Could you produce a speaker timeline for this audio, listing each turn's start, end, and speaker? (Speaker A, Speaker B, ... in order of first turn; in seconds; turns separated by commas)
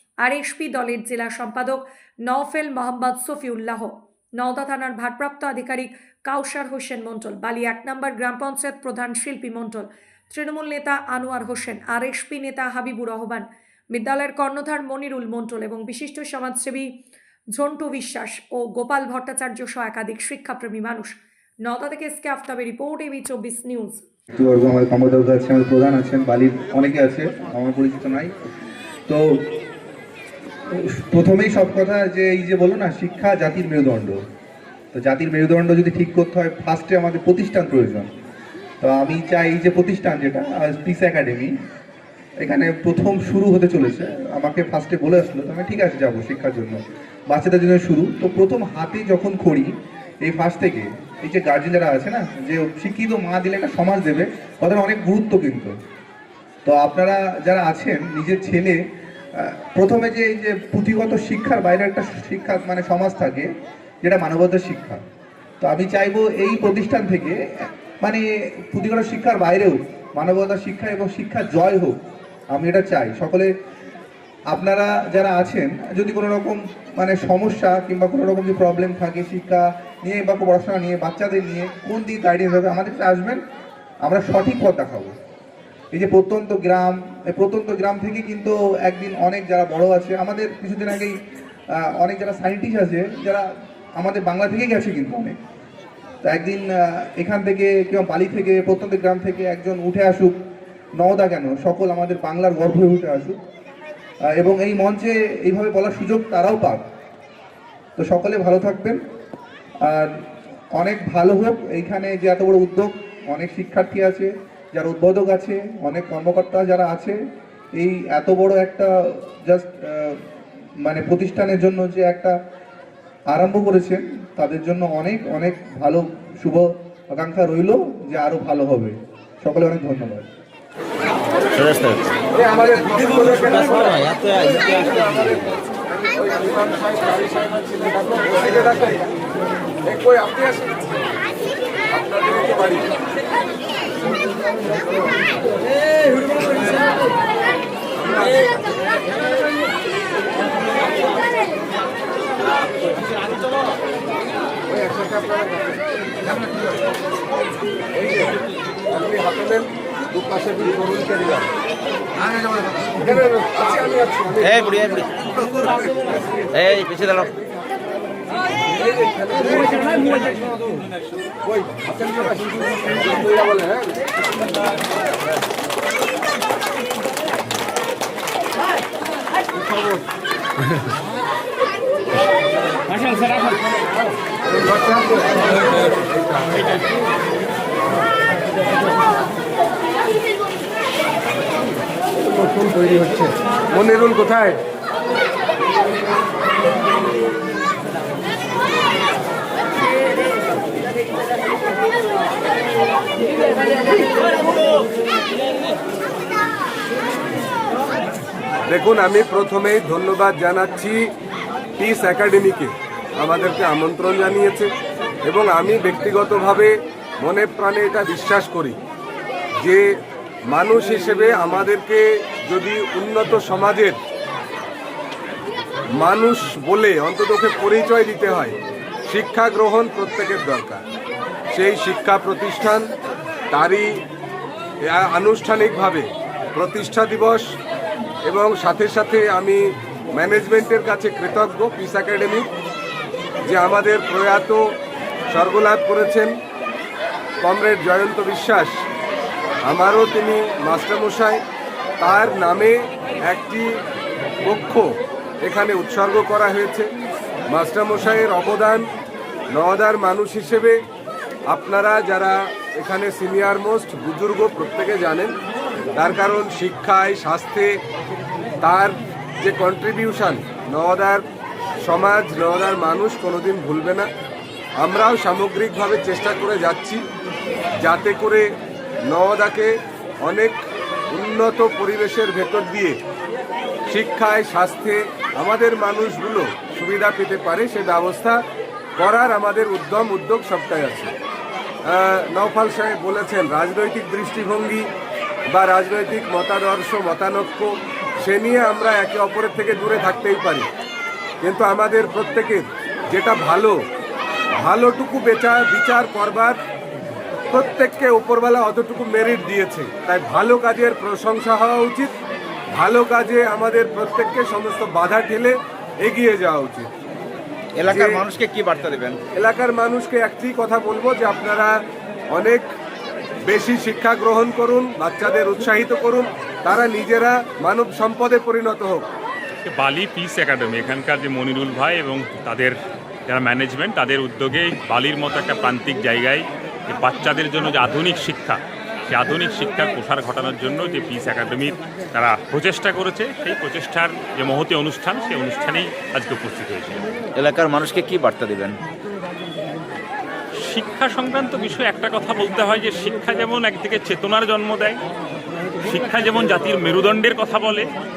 Speaker A: 0.2-17.0, Speaker A: 17.5-24.0, Speaker B: 24.4-28.3, Speaker B: 30.8-34.2, Speaker B: 34.9-38.1, Speaker B: 38.8-41.5, Speaker B: 42.4-55.7, Speaker B: 56.6-58.8, Speaker B: 59.4-63.5, Speaker B: 64.0-65.0, Speaker B: 65.6-67.4, Speaker B: 68.0-72.0, Speaker B: 72.5-73.5, Speaker B: 74.5-83.4, Speaker B: 84.0-85.1, Speaker B: 85.9-91.2, Speaker B: 92.0-93.4, Speaker B: 94.0-95.3, Speaker B: 96.2-100.3, Speaker B: 101.0-103.4, Speaker B: 104.3-106.8, Speaker B: 108.0-109.0, Speaker B: 109.8-110.1, Speaker B: 110.7-117.2, Speaker B: 117.8-120.2, Speaker B: 120.8-122.3, Speaker B: 123.3-130.2, Speaker C: 131.5-132.1, Speaker D: 132.3-139.0, Speaker D: 139.8-140.7, Speaker D: 141.9-142.9, Speaker D: 148.0-148.4, Speaker D: 154.7-155.8, Speaker D: 157.9-158.4, Speaker D: 158.9-161.5, Speaker D: 162.9-164.9, Speaker C: 164.4-165.6, Speaker D: 165.7-166.4, Speaker C: 166.5-167.3, Speaker D: 168.7-170.7, Speaker D: 171.4-174.0, Speaker D: 179.5-180.0, Speaker D: 184.5-186.8, Speaker D: 192.2-194.6, Speaker D: 208.7-211.0, Speaker D: 211.8-214.7, Speaker D: 215.2-218.8, Speaker D: 220.5-224.0, Speaker D: 226.0-228.6, Speaker D: 229.1-230.8, Speaker D: 231.5-232.9, Speaker D: 233.5-233.9, Speaker D: 234.9-237.4, Speaker D: 238.3-239.6, Speaker D: 240.1-242.5, Speaker D: 243.4-244.6, Speaker D: 245.3-246.3, Speaker D: 247.4-248.7, Speaker D: 249.7-251.4, Speaker D: 252.0-253.7, Speaker D: 254.4-254.9, Speaker D: 255.4-256.9, Speaker D: 257.5-258.8, Speaker D: 259.5-260.8, Speaker D: 261.5-265.3, Speaker D: 265.9-267.7, Speaker D: 268.6-271.2, Speaker D: 271.8-274.1, Speaker D: 274.8-277.0, Speaker D: 277.8-278.4, Speaker D: 279.1-279.7, Speaker D: 280.2-280.6, Speaker D: 281.1-283.0, Speaker D: 283.9-288.4, Speaker D: 289.0-291.1, Speaker D: 291.9-294.9, Speaker D: 295.5-297.7, Speaker D: 298.2-300.7, Speaker D: 301.4-303.8, Speaker D: 304.6-306.6, Speaker D: 307.5-312.1, Speaker D: 312.7-316.9, Speaker C: 317.8-319.2, Speaker D: 317.9-318.2, Speaker D: 319.4-321.7, Speaker D: 322.3-322.7, Speaker D: 323.5-329.0, Speaker E: 329.6-332.7, Speaker E: 333.3-347.0, Speaker C: 347.3-348.8, Speaker E: 350.6-355.0, Speaker E: 355.8-357.9